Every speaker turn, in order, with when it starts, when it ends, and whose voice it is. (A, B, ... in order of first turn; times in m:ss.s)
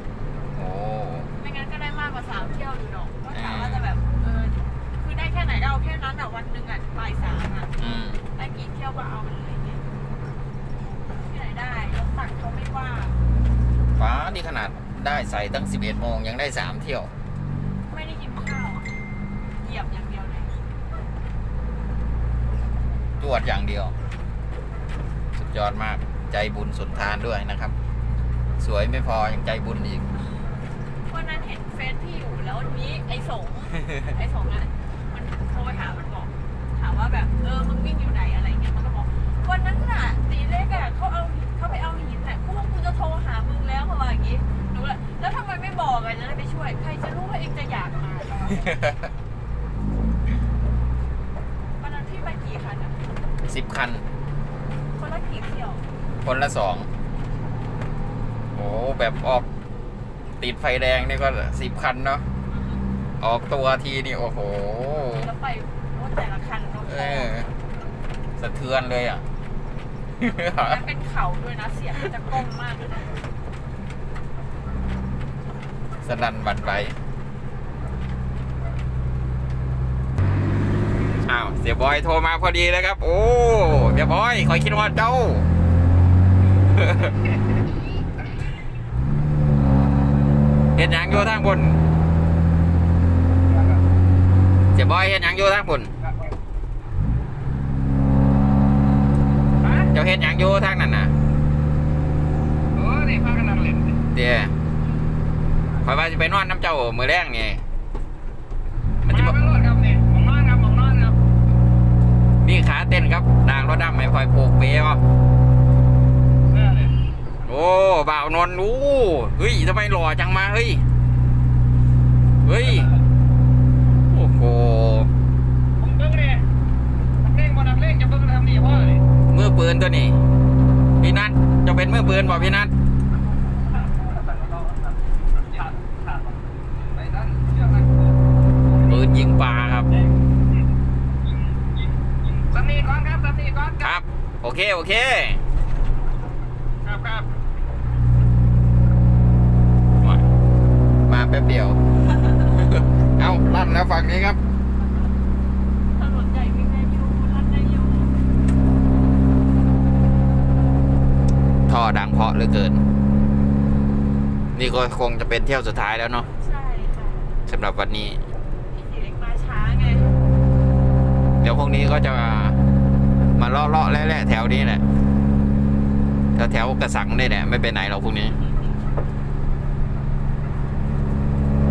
0:00.6-0:01.3 A
0:01.4-0:07.7 B
0:03.3-0:03.9 A
0:07.8-0:08.2 A
0:08.4-0:09.8 B
0:11.1-0:13.2 B
0:14.0-0:17.1 A
0:17.9-0:18.9 B
0:19.6-0:20.6 B
0:23.2-0:23.9 A
0:25.4-0:27.7 A
0:28.6-0:30.0 A
0:31.1-0:48.7 B
0:48.6-0:49.1 A
0:51.8-0:53.0 B
0:53.5-0:54.0 A
0:55.0-0:55.8 B
0:56.2-0:56.9 A
0:58.6-0:59.5 A
1:00.4-1:02.3 A
1:02.5-1:02.8 B
1:03.2-1:05.3 A
1:05.2-1:07.4 B
1:06.9-1:07.5 A
1:08.4-1:09.2 A
1:10.2-1:10.8 A
1:10.3-1:13.2 B
1:16.0-1:17.0 A
1:21.2-1:25.5 A
1:26.6-1:27.2 A
1:30.8-1:31.8 A
1:33.4-1:33.8 C
1:34.7-1:35.9 A
1:36.0-1:36.3 C
1:39.6-1:39.9 C
1:39.9-1:41.1 A
1:42.8-1:44.0 C
1:44.1-1:44.5 A
1:45.8-1:47.6 A
1:49.0-1:49.4 A
1:49.0-1:51.2 C
1:52.4-1:55.0 A
1:56.5-1:57.0 C
1:57.4-2:00.8 A
2:02.4-2:02.9 A
2:04.1-2:05.1 A
2:05.8-2:06.4 C
2:07.2-2:09.0 C
2:09.3-2:10.2 A
2:11.0-2:12.7 A
2:13.8-2:18.2 C
2:18.8-2:19.9 A
2:21.4-2:21.7 C
2:22.3-2:23.9 C
2:23.8-2:25.4 A
2:26.8-2:27.3 C
2:31.1-2:31.8 A
2:32.5-2:34.4 A
2:36.0-2:38.2 B
2:41.7-2:42.8 A
2:44.6-2:46.3 A
2:46.4-2:47.4 B
2:47.5-2:48.2 A
2:48.7-2:50.1 B
2:51.4-2:52.6 A
2:53.4-2:54.8 A
2:56.4-2:58.4 A